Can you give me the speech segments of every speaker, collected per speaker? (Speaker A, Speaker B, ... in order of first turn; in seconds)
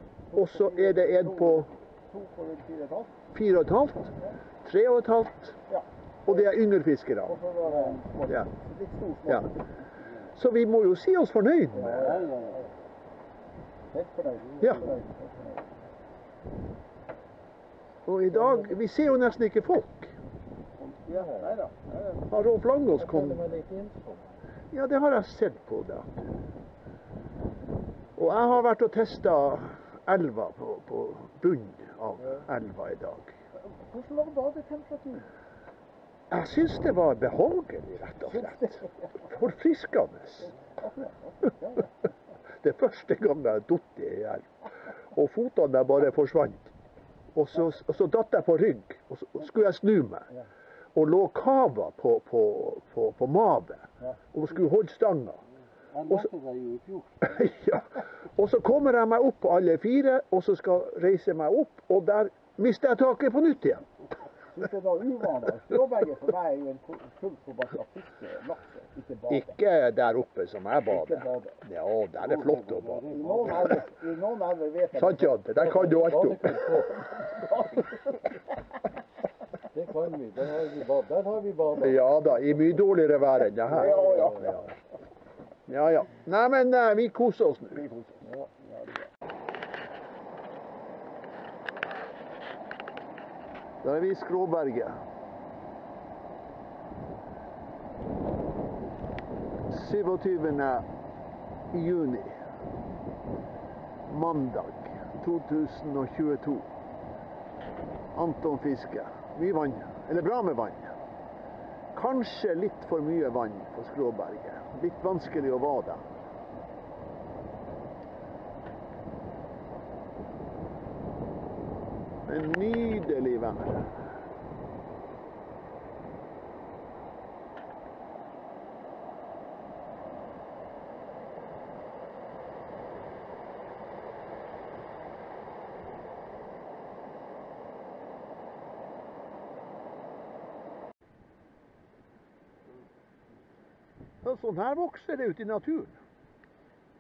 Speaker A: 0.3-3.2, 5.7-6.5, 7.3-9.5, 11.7-12.6, 13.9-15.7, 21.4-22.2, 33.8-35.3, 40.8-41.9, 64.5-69.6, 70.9-71.5, 73.2-75.3, 77.3-77.9, 83.8-84.4, 88.0-88.5
Speaker B: 0.3-1.7, 3.3-5.6, 6.2-7.4, 10.3-12.2, 18.1-20.1, 22.3-23.6, 24.7-26.3, 28.2-33.4, 36.3-40.5, 42.6-44.5, 45.1-46.7, 47.4-50.3, 51.0-55.4, 57.2-63.9, 69.3-73.2, 75.0-76.8, 81.8-84.6, 85.7-87.8, 93.8-95.0, 99.7-100.9, 101.7-102.4, 104.1-106.7, 108.1-111.0, 111.9-116.0, 122.3-123.9, 144.2-146.0
Speaker C: 7.7-8.0, 12.2-12.7, 21.1-21.6, 22.9-24.4, 55.9-57.3, 72.2-73.8, 75.6-77.0, 79.7-82.0, 83.8-84.4